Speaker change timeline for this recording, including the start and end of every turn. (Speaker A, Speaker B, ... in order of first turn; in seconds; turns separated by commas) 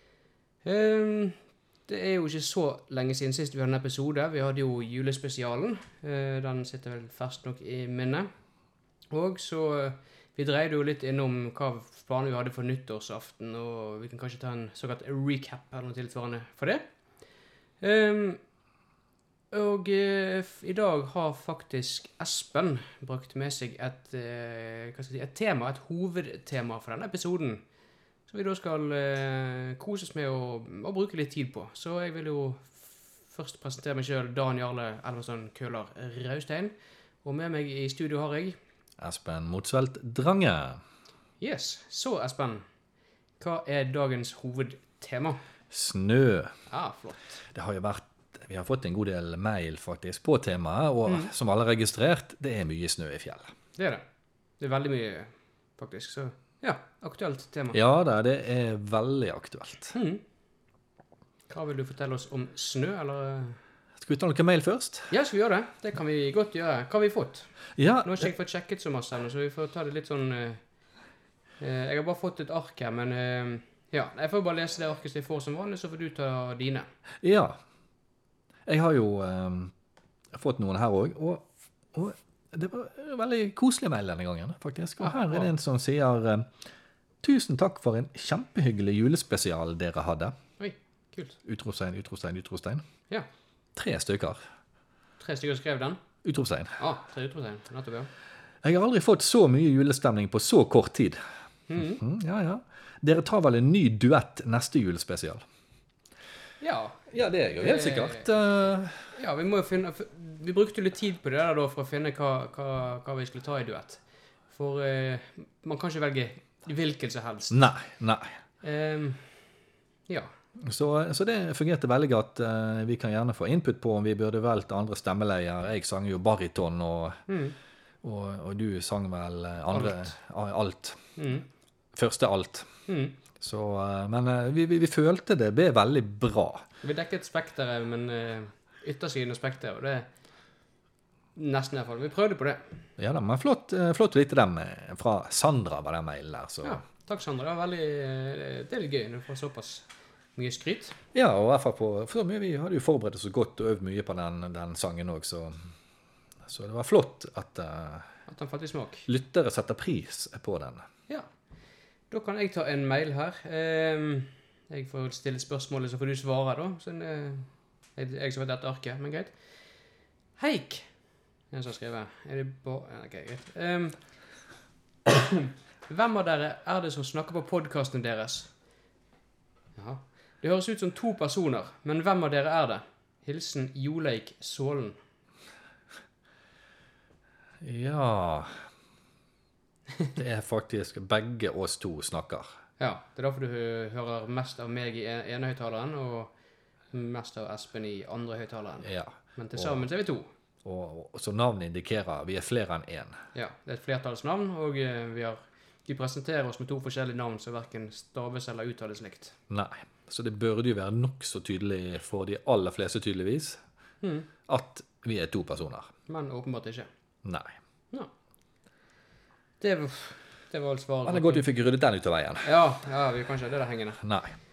Speaker A: 0.6-8.3, Speaker A: 9.1-16.8, Speaker A: 17.8-18.4, Speaker A: 19.5-27.6, Speaker A: 28.3-38.6, Speaker B: 39.0-40.8, Speaker A: 41.4-42.6, Speaker A: 43.4-45.4, Speaker B: 45.7-46.5, Speaker A: 46.7-47.4, Speaker B: 47.5-53.5, Speaker A: 51.0-51.3, Speaker A: 53.8-54.0, Speaker A: 54.6-57.8, Speaker B: 57.7-59.9, Speaker A: 59.9-60.2, Speaker A: 61.5-63.6, Speaker B: 64.0-65.1, Speaker A: 65.1-67.5, Speaker B: 67.8-68.3, Speaker A: 68.0-70.6, Speaker A: 71.6-76.9, Speaker B: 77.2-77.6, Speaker B: 78.7-79.7, Speaker B: 80.3-86.5, Speaker A: 85.0-85.5, Speaker B: 87.2-90.3, Speaker A: 90.6-91.4, Speaker B: 91.4-92.8, Speaker B: 93.7-94.4, Speaker A: 95.2-96.0, Speaker B: 96.2-96.8, Speaker A: 96.8-98.1, Speaker B: 98.6-101.2, Speaker A: 101.7-102.0, Speaker B: 101.7-105.4, Speaker A: 106.6-107.0, Speaker B: 107.1-109.1, Speaker A: 107.6-108.3, Speaker A: 109.1-117.7, Speaker B: 117.5-118.4, Speaker A: 118.6-119.3, Speaker B: 120.6-127.2, Speaker A: 127.3-127.5, Speaker B: 128.0-131.0, Speaker A: 129.7-130.1, Speaker A: 131.2-131.4, Speaker B: 131.9-132.7, Speaker A: 132.9-133.2, Speaker B: 133.3-136.6, Speaker A: 136.8-140.1, Speaker A: 141.3-142.6, Speaker B: 143.0-146.8, Speaker A: 146.6-151.0, Speaker B: 151.1-155.7, Speaker B: 156.4-158.1, Speaker A: 158.3-159.1, Speaker B: 159.1-160.9, Speaker A: 162.1-169.3, Speaker A: 170.4-170.9, Speaker A: 171.5-174.0, Speaker A: 175.1-178.5, Speaker A: 179.8-185.0, Speaker B: 187.6-188.6, Speaker B: 190.1-192.5, Speaker A: 192.8-196.3, Speaker A: 196.9-200.3, Speaker B: 198.8-199.8, Speaker B: 200.6-203.2, Speaker A: 203.3-209.3, Speaker B: 209.5-213.6, Speaker A: 214.0-214.3, Speaker B: 214.5-215.9, Speaker A: 216.1-216.9, Speaker B: 217.2-217.6, Speaker A: 219.6-221.4, Speaker B: 221.0-222.5, Speaker A: 222.4-224.0, Speaker B: 224.0-224.3